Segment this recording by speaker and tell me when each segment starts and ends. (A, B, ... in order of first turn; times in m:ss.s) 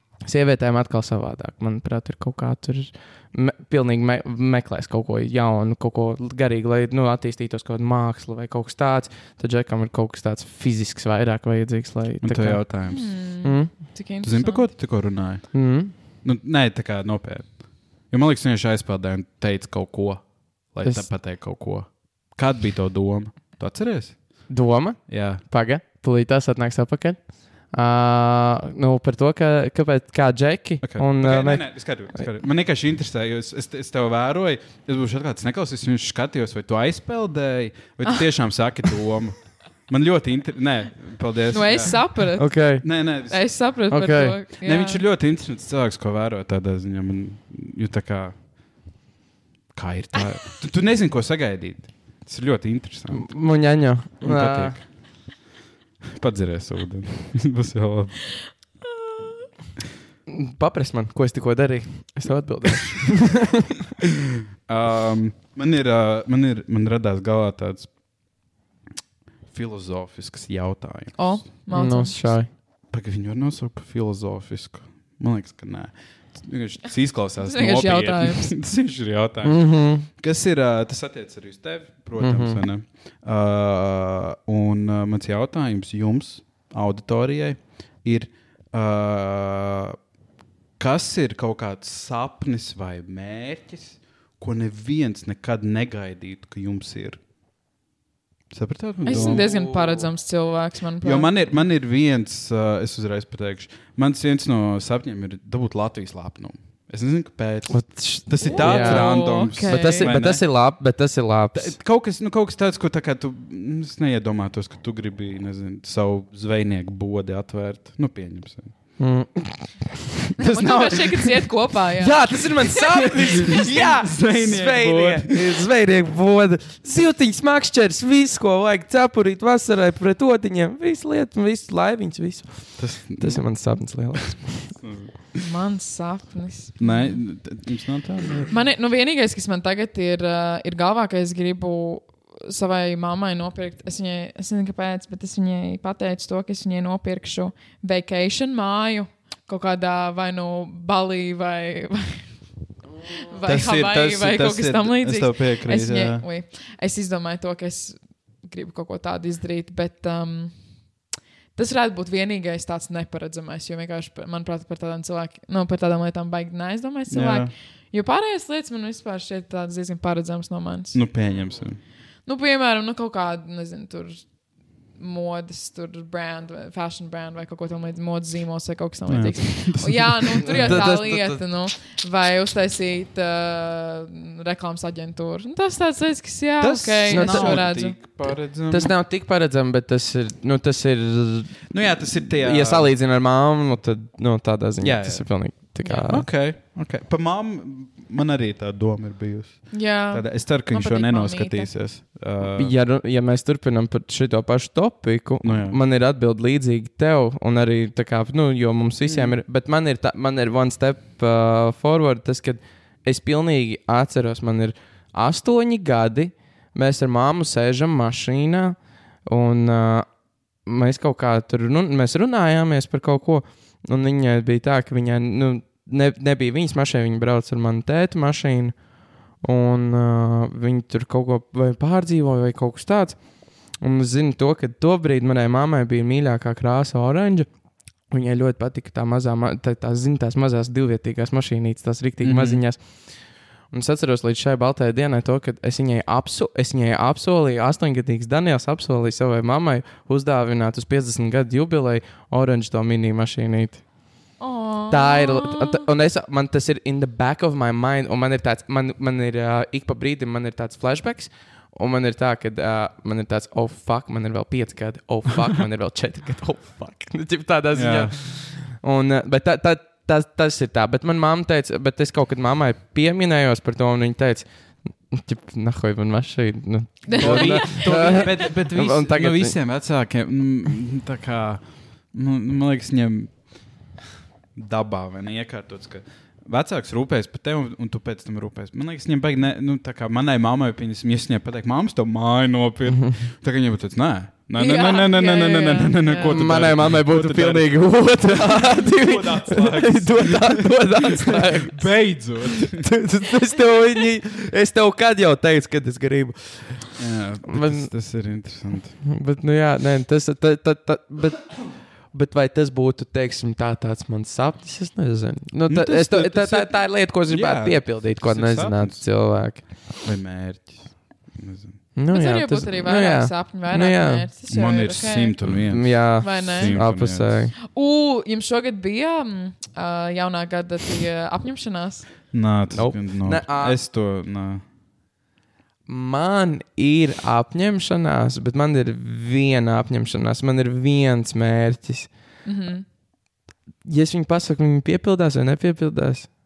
0:00.2-0:12.7 A
0:12.2-0:13.1 B
0:12.9-0:14.7 C
0:13.4-0:13.7 A
0:14.2-0:24.5 B
0:15.5-0:15.9 A
0:24.5-0:31.7 A
0:25.1-0:25.4 B
0:30.8-0:42.2 B
0:41.5-0:45.0 C
0:42.4-0:42.8 A
0:42.8-0:43.5 B
0:43.9-0:44.4 A
0:44.6-0:48.4 B
0:49.7-0:53.4 B
0:53.1-0:54.8 A
0:54.2-0:55.2 B
0:56.1-0:58.2 B
1:00.3-1:03.6 A
1:04.7-1:08.0 B
1:09.5-1:11.4 B
1:11.2-1:12.3 C
1:11.7-1:12.5 A
1:12.9-1:30.0 B
1:17.4-1:18.6 C
1:19.4-1:20.1 A
1:22.2-1:22.6 A
1:30.8-1:37.2 B
1:38.5-1:40.1 B
1:39.0-1:41.3 C
1:41.0-1:50.4 B
1:47.7-1:51.7 A
1:48.4-1:50.2 C
1:51.5-1:58.7 B
1:59.0-1:59.8 A
2:00.4-2:03.6 C
2:00.4-2:01.4 B
2:02.0-2:14.8 A
2:03.1-2:05.6 B
2:12.8-2:13.4 B
2:14.8-2:15.4 B
2:15.4-2:17.2 C
2:16.8-2:18.5 B
2:18.5-2:32.3 C
2:33.0-2:40.6 C
2:33.4-2:36.2 B
2:41.6-2:51.0 C
2:47.1-2:47.5 B
2:50.9-2:51.8 B
2:52.3-2:54.3 C
2:55.0-3:08.0 C
2:59.1-3:00.8 B
3:00.4-3:01.4 A
3:06.6-3:08.9 B
3:07.1-3:07.6 A
3:08.7-3:11.6 A
3:11.7-3:12.9 B
3:12.2-3:16.3 A
3:14.8-3:15.4 B
3:16.0-3:22.7 B
3:19.7-3:21.7 C
3:22.6-3:38.8 A
3:25.4-3:25.8 B
3:29.0-3:29.4 B
3:39.3-3:40.1 A
3:40.7-3:48.7 A
3:49.4-3:53.2 A
3:53.8-3:57.5 A
3:58.1-4:02.8 A
4:02.2-4:02.6 B
4:03.7-4:13.8 A
4:14.4-4:15.9 C
4:14.9-4:34.4 A
4:27.7-4:28.2 B
4:35.1-4:39.6 A
4:37.0-4:38.5 C
4:37.2-4:43.4 B
4:44.6-5:02.9 B
4:52.9-4:53.2 A
4:54.6-4:56.4 C
4:56.3-5:02.0 A
5:02.6-5:07.0 A
5:07.0-5:09.0 B
5:07.5-5:07.9 A
5:09.0-5:19.6 A
5:15.7-5:19.1 B
5:20.0-5:21.8 B
5:22.0-5:24.3 A
5:22.1-5:25.4 C
5:24.5-5:27.5 B
5:25.7-5:27.5 A
5:26.2-5:26.8 C
5:27.6-5:32.1 C
5:32.3-5:34.6 B
5:32.7-5:33.8 A
5:35.9-5:42.1 A
5:42.4-5:42.8 C
5:43.8-5:46.3 A